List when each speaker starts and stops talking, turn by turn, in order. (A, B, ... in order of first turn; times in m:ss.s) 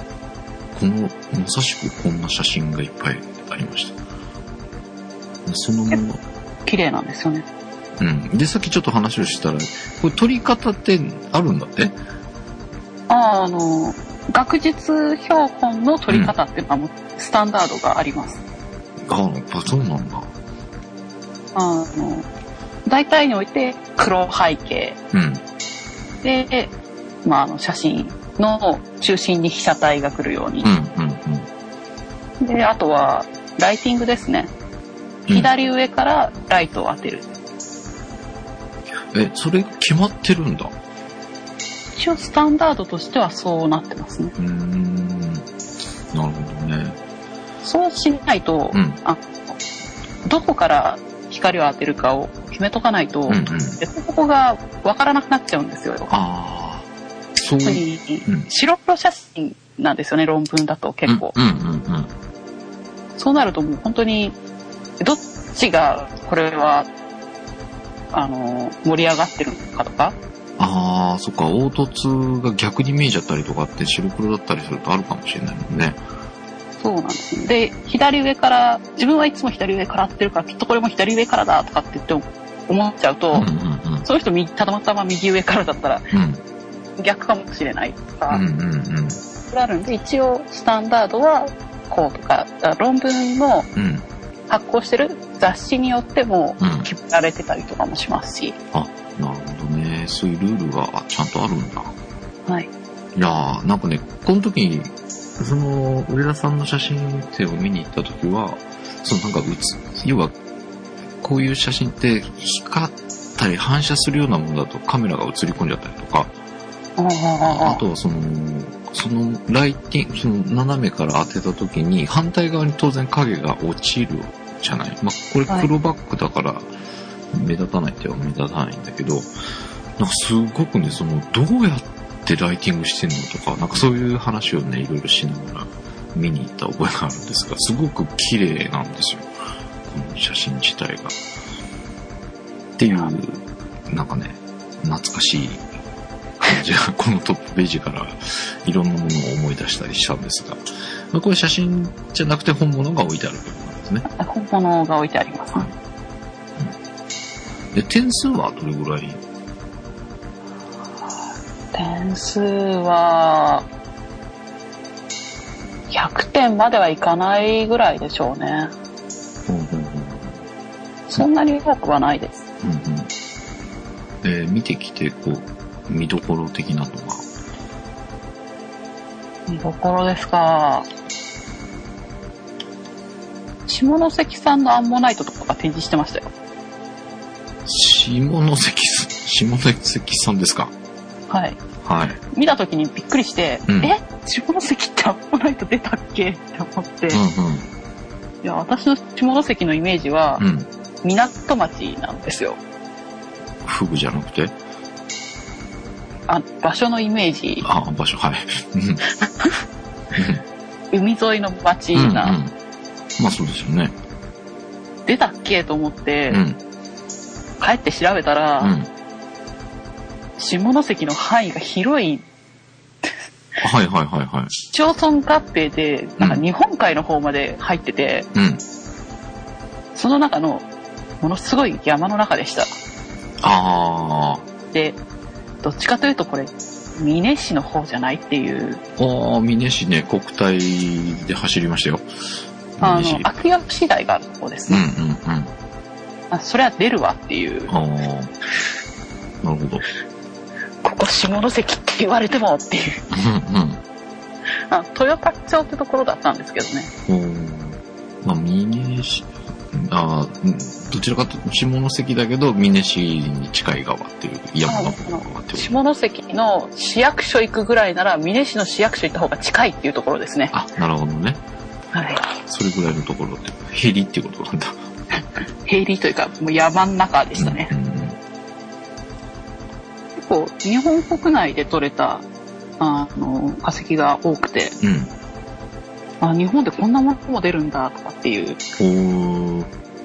0:00.7-0:04.0 A
0:05.4-0:06.2 A
0:06.6-0:07.5 B
0:08.0-0:12.0 A
0:13.1-0:18.4 B
0:16.1-0:16.3 A
0:19.0-0:20.3 A
0:21.5-0:22.3 B
0:22.8-0:25.0 B
0:25.1-0:25.4 A
0:26.2-0:26.7 B
0:27.2-0:30.7 B
0:30.6-0:31.5 A
0:32.4-0:34.5 B
0:35.3-0:37.3 B
0:39.0-0:40.7 A
0:42.0-0:44.3 B
0:44.4-0:45.4 A
0:46.1-0:47.0 A
0:47.6-0:49.2 B
0:48.7-0:49.0 A
0:50.2-0:56.1 B
0:53.3-0:53.8 A
0:56.1-0:56.8 A
0:57.4-0:58.5 A
0:57.6-1:01.3 B
1:01.1-1:02.1 A
1:03.2-1:04.4 B
1:05.0-1:06.9 B
1:08.1-1:10.2 B
1:10.6-1:16.0 A
1:16.8-1:23.5 B
1:23.3-1:24.0 A
1:24.0-1:26.1 B
1:26.1-1:26.4 A
1:27.0-1:28.4 B
1:28.3-1:29.2 A
1:29.5-1:33.7 B
1:33.7-1:34.0 A
1:34.5-1:38.6 B
1:36.6-1:36.9 A
1:38.7-1:41.9 A
1:43.1-1:50.3 A
1:51.2-1:56.3 A
1:57.0-1:57.8 B
1:57.4-2:06.7 A
2:07.3-2:09.3 A
2:10.0-2:19.3 A
2:19.8-2:21.2 A
2:22.8-2:25.6 A
2:26.4-2:34.0 A
2:34.1-2:35.7 B
2:37.7-2:39.2 A
2:41.7-2:43.6 B
2:45.9-2:48.7 B
2:49.5-2:50.3 A
2:51.1-2:52.4 B
2:52.6-2:53.1 A
2:54.2-2:57.2 A
2:59.5-3:00.9 B
3:03.7-3:06.3 B
3:07.6-3:10.7 A
3:11.3-3:11.6 B
3:11.8-3:12.2 A
3:12.3-3:17.2 B
3:13.7-3:13.9 A
3:17.1-3:17.7 A
3:18.4-3:20.4 B
3:20.4-3:20.7 A
3:21.0-3:22.6 B
3:23.6-3:24.5 A
3:26.3-3:27.7 B
3:27.6-3:29.0 A
3:30.1-3:30.4 A
3:30.9-3:32.4 B
3:31.9-3:32.5 A
3:33.2-3:33.9 A
3:35.0-3:36.4 B
3:36.3-3:36.6 A
3:37.6-3:38.7 B
3:38.6-3:38.9 A
3:40.4-3:42.2 B
3:43.6-3:44.5 A
3:44.7-3:48.3 B
3:48.3-3:48.6 A
3:49.9-3:50.6 B
3:51.2-3:52.7 B
3:53.4-3:54.4 A
3:54.7-3:55.0 B
3:55.6-3:58.8 B
3:59.0-4:02.0 A
4:02.8-4:03.3 A
4:02.8-4:04.8 B
4:04.7-4:05.5 A
4:06.3-4:07.7 B
4:07.7-4:08.3 A
4:09.4-4:09.8 A
4:10.8-4:13.0 B
4:13.1-4:13.8 A
4:14.7-4:16.9 B
4:17.1-4:25.8 A
4:24.6-4:30.5 B
4:30.5-4:31.4 A
4:31.9-4:32.2 B
4:32.4-4:34.8 A
4:35.6-4:37.7 B
4:37.3-4:38.2 A
4:40.2-4:42.2 B
4:42.8-4:44.8 B
4:44.8-4:45.1 A
4:46.2-4:48.6 B
4:48.8-4:49.7 A